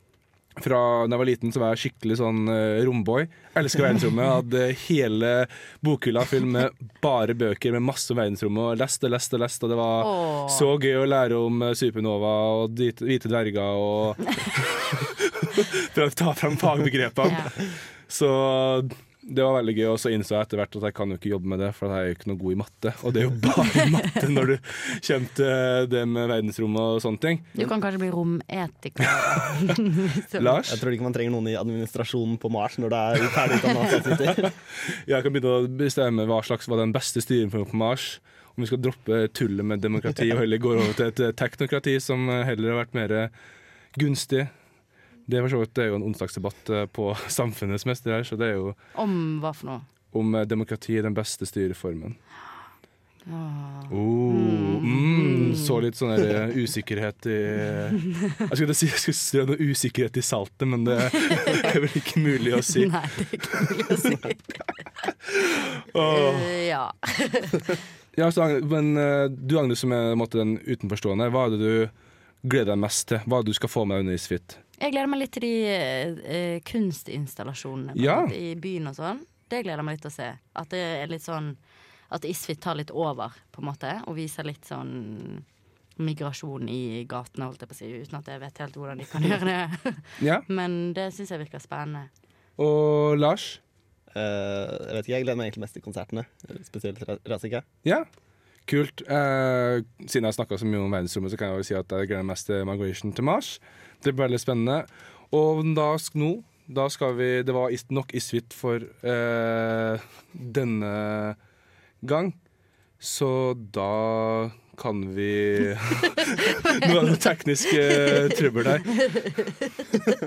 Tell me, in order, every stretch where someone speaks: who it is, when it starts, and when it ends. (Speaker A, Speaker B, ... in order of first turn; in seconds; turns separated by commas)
Speaker A: 0.6-27.5, Speaker B: 10.0-10.7, Speaker B: 17.2-17.5, Speaker B: 27.6-30.5, Speaker A: 30.4-30.8, Speaker C: 30.7-34.5, Speaker A: 34.2-43.3, Speaker A: 44.0-44.5, Speaker A: 45.3-48.8, Speaker B: 49.0-49.9, Speaker A: 50.1-52.2, Speaker B: 53.3-55.8, Speaker A: 53.9-63.0, Speaker B: 62.8-64.6, Speaker A: 63.5-64.1, Speaker A: 65.3-66.5, Speaker B: 66.0-67.7, Speaker A: 68.2-71.9, Speaker A: 72.4-74.6, Speaker B: 74.8-85.5, Speaker A: 78.0-78.3, Speaker B: 86.0-92.1, Speaker A: 90.2-90.5, Speaker A: 92.6-93.6, Speaker C: 94.1-97.7, Speaker A: 98.7-111.4, Speaker A: 112.0-112.4, Speaker A: 113.0-119.0, Speaker B: 119.1-119.7